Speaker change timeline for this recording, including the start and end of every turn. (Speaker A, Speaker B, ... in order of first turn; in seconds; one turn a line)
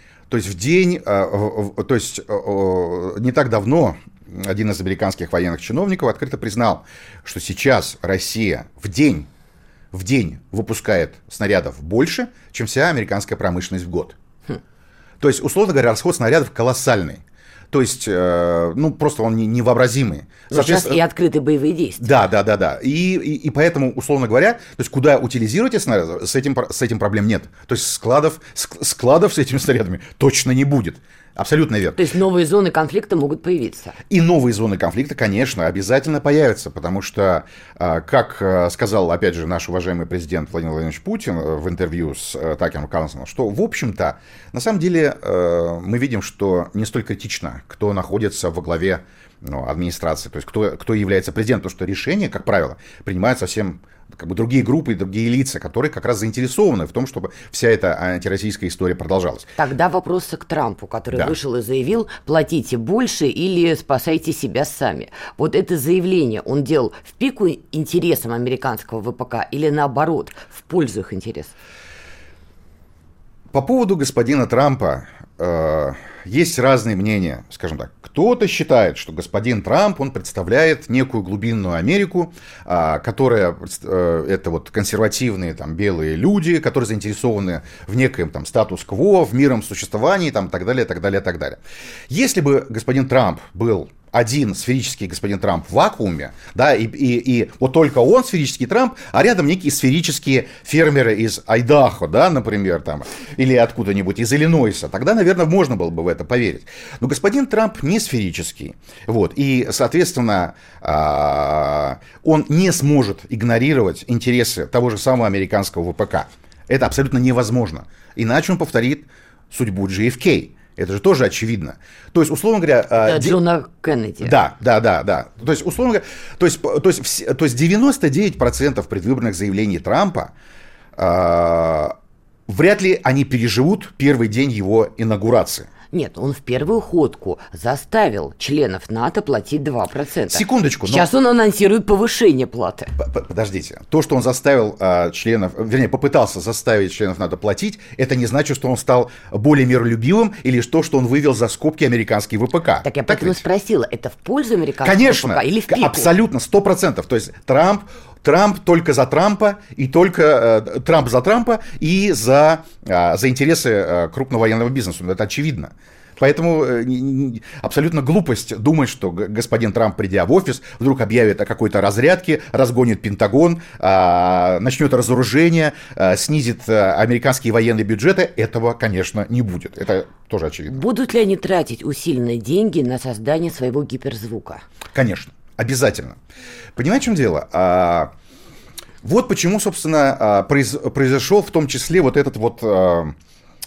Speaker A: 0.3-9.3
Speaker A: 9.9-14.2
Speaker A: 15.2-21.0
Speaker B: 20.5-22.1
Speaker A: 22.0-32.0
Speaker B: 31.9-34.0
Speaker A: 34.1-59.5
Speaker B: 59.6-71.5
Speaker A: 73.5-123.4
Speaker B: 123.0-124.4
Speaker A: 124.2-130.3
Speaker A: 130.9-131.9
Speaker A: 132.5-135.7
Speaker B: 135.9-142.9
Speaker A: 140.3-141.1
Speaker A: 143.0-153.4
Speaker B: 152.8-156.1
Speaker A: 154.8-180.8
Speaker B: 180.7-184.6
Speaker A: 184.9-186.2
Speaker A: 186.8-188.1
Speaker A: 189.0-193.1